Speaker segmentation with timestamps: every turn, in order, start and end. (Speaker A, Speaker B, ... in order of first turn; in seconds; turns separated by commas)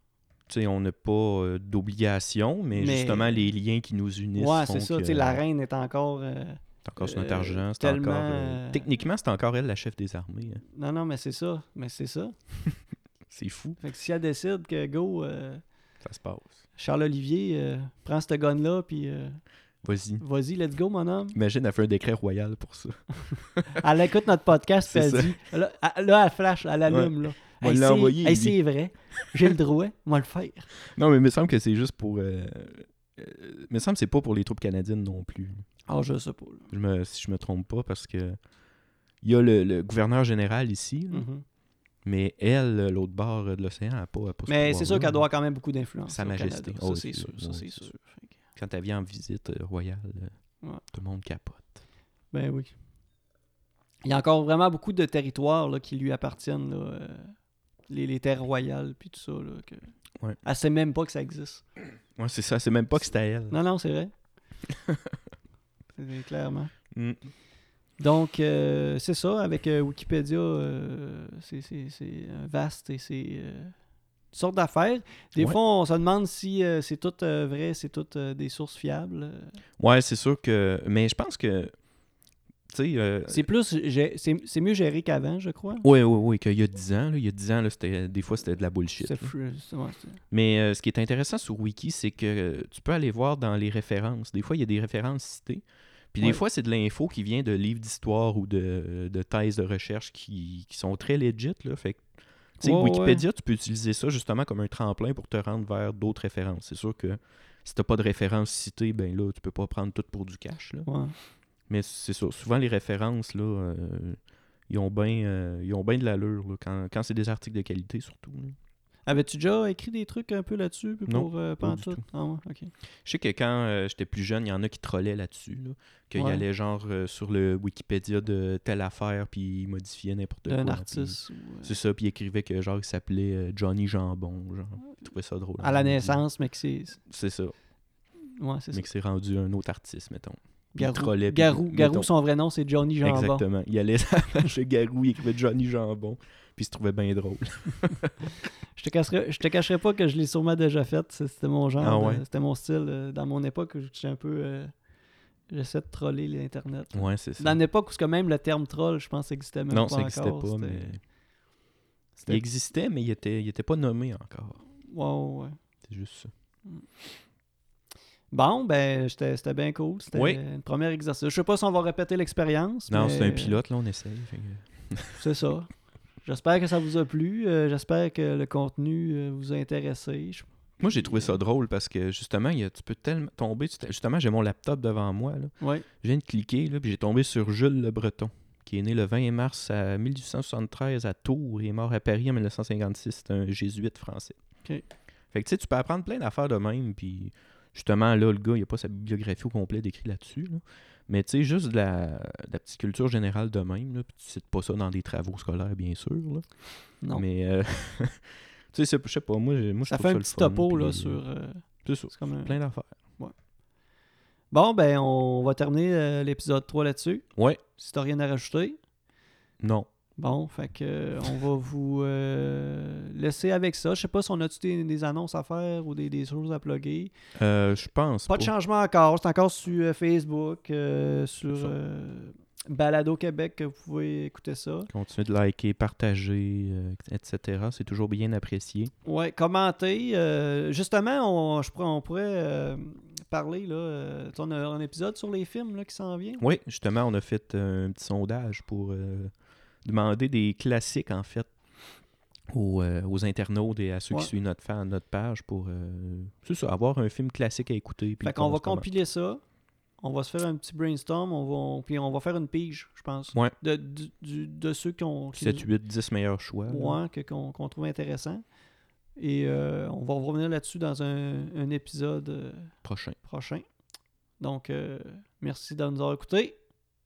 Speaker A: 0.5-5.4, Speaker B: 2.7-3.5, Speaker B: 4.4-8.9, Speaker A: 6.8-10.6, Speaker B: 10.7-12.3, Speaker A: 13.3-13.8, Speaker B: 13.8-15.6, Speaker A: 16.0-16.6, Speaker B: 16.8-19.4, Speaker A: 19.8-20.2, Speaker B: 20.2-21.4, Speaker A: 21.3-23.8, Speaker B: 23.7-30.7, Speaker A: 24.9-25.4, Speaker A: 26.9-28.6, Speaker A: 30.9-35.6, Speaker B: 35.9-36.7, Speaker A: 36.7-38.4, Speaker A: 39.2-41.3, Speaker B: 41.1-41.4, Speaker A: 42.0-45.2, Speaker B: 44.5-48.3, Speaker A: 46.1-47.9, Speaker A: 48.6-50.4, Speaker A: 50.9-51.8, Speaker B: 52.3-52.7, Speaker B: 54.0-57.4, Speaker B: 57.9-59.9, Speaker B: 60.4-61.6, Speaker A: 62.2-63.6, Speaker B: 63.5-64.1, Speaker A: 64.7-65.2, Speaker B: 66.0-66.7, Speaker A: 66.9-67.3, Speaker B: 68.0-73.7, Speaker B: 74.3-79.6, Speaker A: 79.8-81.7, Speaker A: 82.7-83.5, Speaker B: 83.3-85.9, Speaker A: 85.8-89.3, Speaker B: 89.0-90.2, Speaker A: 90.3-102.0, Speaker A: 102.6-110.9, Speaker B: 102.6-103.2, Speaker B: 110.9-111.2, Speaker A: 111.7-118.6, Speaker B: 119.1-122.7, Speaker A: 121.1-122.0, Speaker A: 123.0-136.2, Speaker B: 126.2-126.4, Speaker B: 130.5-131.7, Speaker B: 135.6-137.0, Speaker A: 137.1-137.5, Speaker B: 138.4-138.9, Speaker A: 138.7-142.1, Speaker B: 140.8-143.4, Speaker A: 143.0-148.3, Speaker B: 148.8-154.7, Speaker A: 151.8-152.2, Speaker B: 155.5-161.0, Speaker A: 156.9-157.6, Speaker A: 159.7-161.0, Speaker A: 162.2-164.6, Speaker B: 164.8-165.6, Speaker A: 165.9-166.3, Speaker B: 168.3-173.6, Speaker A: 170.1-170.4, Speaker A: 172.9-175.2, Speaker B: 175.2-181.4, Speaker A: 180.8-194.4, Speaker B: 185.6-185.9, Speaker A: 195.3-206.5, Speaker A: 207.1-211.2, Speaker B: 209.9-212.6, Speaker A: 211.8-212.9, Speaker B: 214.5-217.3, Speaker B: 217.8-218.8, Speaker A: 219.6-219.9, Speaker B: 220.2-227.1, Speaker A: 227.4-228.5, Speaker B: 228.3-234.9, Speaker A: 231.5-231.7, Speaker A: 234.9-238.9, Speaker B: 239.1-246.4, Speaker A: 246.4-249.3, Speaker A: 249.8-251.5, Speaker A: 252.5-258.9, Speaker B: 258.2-259.4, Speaker B: 260.0-265.7, Speaker A: 265.3-267.0, Speaker B: 266.7-268.4, Speaker B: 269.2-273.6, Speaker A: 272.8-273.2, Speaker B: 274.4-276.6